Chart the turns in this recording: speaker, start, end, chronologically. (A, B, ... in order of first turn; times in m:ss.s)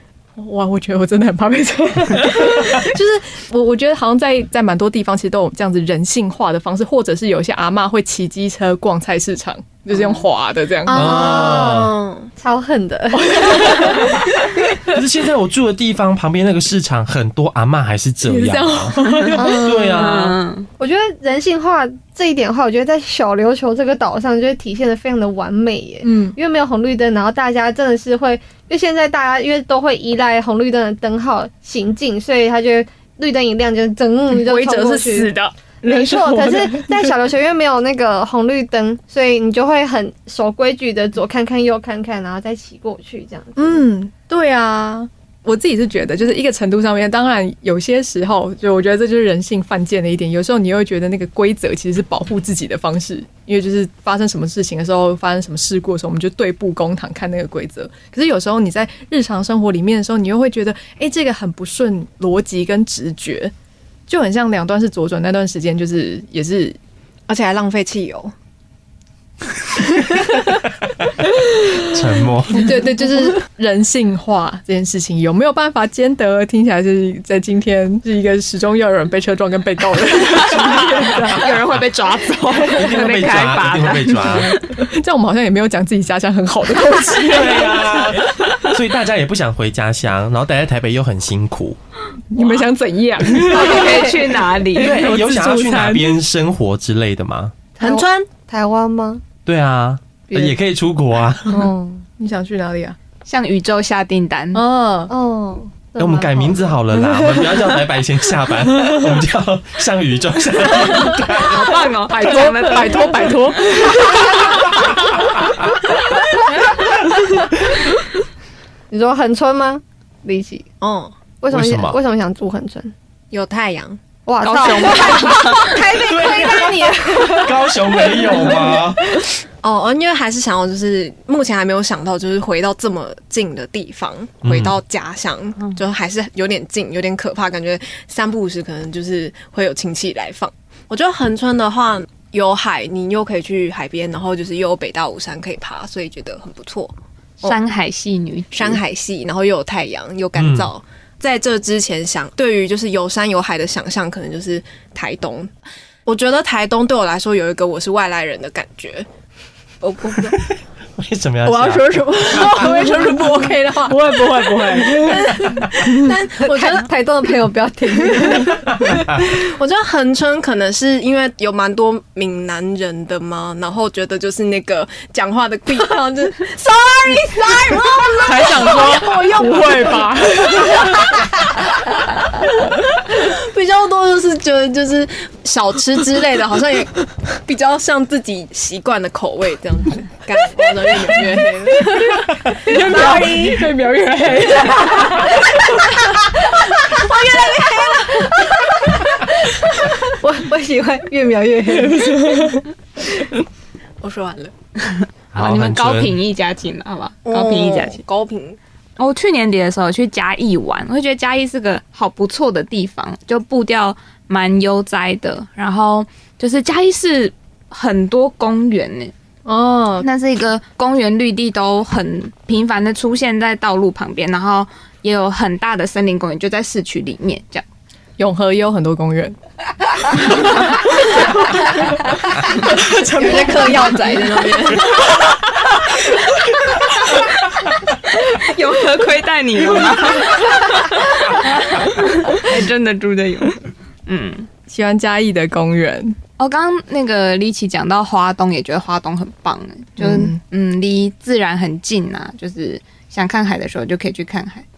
0:00.4-0:11.3 A
0:10.8-0:12.3 B
0:10.9-0:11.9 C
0:11.2-0:11.8 D
0:12.4-0:14.3 D
0:13.1-0:15.0 A
0:14.9-0:20.4 C
0:18.2-0:19.7 A
0:19.3-0:20.2 D
0:19.9-0:20.7 E
0:20.8-0:35.3 D
0:26.0-0:26.4 A
0:34.3-0:37.1 A
0:35.8-0:43.8 D
0:43.6-1:03.5 A
1:04.1-1:06.8 A
1:07.3-1:08.3 B
1:11.8-1:12.7 C
1:12.6-1:21.6 A
1:21.3-1:24.4 E
1:22.6-1:24.6 C
1:24.3-1:28.7 A
1:27.2-1:31.8 C
1:32.3-1:36.2 A
1:33.4-1:35.1 E
1:33.5-1:34.2 D
1:34.7-1:37.6 C
1:37.8-1:38.3 B
1:37.8-1:39.2 D
1:39.4-1:41.7 C
1:40.3-1:40.6 D
1:41.5-1:42.1 D
1:42.2-1:43.0 A
1:43.2-1:44.6 E
1:44.5-1:45.1 A
1:45.1-1:46.7 D
1:46.0-1:51.6 C
1:51.4-1:53.6 E
1:51.4-1:54.9 A
1:58.9-2:00.7 D
2:00.8-2:01.1 B
2:01.4-2:02.9 D
2:01.5-2:02.0 C
2:03.3-2:04.0 B
2:04.2-2:09.2 D
2:04.4-2:05.8 E
2:06.0-2:09.1 C
2:09.6-2:27.6 B
2:14.4-2:14.8 C
2:27.4-2:28.8 E
2:28.5-2:35.5 B
2:30.4-2:30.7 C
2:36.0-2:39.1 B
2:39.8-2:40.4 B
2:40.3-2:42.7 C
2:41.4-2:46.1 A
2:41.7-2:43.6 B
2:44.7-2:46.9 B
2:46.4-2:48.6 D
2:48.1-2:49.1 A
2:48.7-2:49.2 C
2:49.0-3:01.1 B
2:58.2-3:01.2 A
3:03.1-3:12.1 B
3:11.3-3:16.1 A
3:12.7-3:13.7 D
3:15.0-3:15.5 D
3:16.1-3:22.5 D
3:17.1-3:17.9 B
3:21.7-3:22.6 A
3:24.0-3:24.5 B
3:24.8-3:28.0 E
3:25.4-3:26.2 C
3:27.2-3:28.6 B
3:29.0-3:39.1 E
3:39.4-3:40.1 A
3:40.0-3:47.6 E
3:48.2-3:49.4 A
3:50.2-3:51.2 A
3:51.7-3:54.8 A
3:52.7-3:55.1 B
3:58.1-4:04.5 E
4:04.7-4:06.2 A
4:06.4-4:14.6 E
4:10.0-4:10.4 A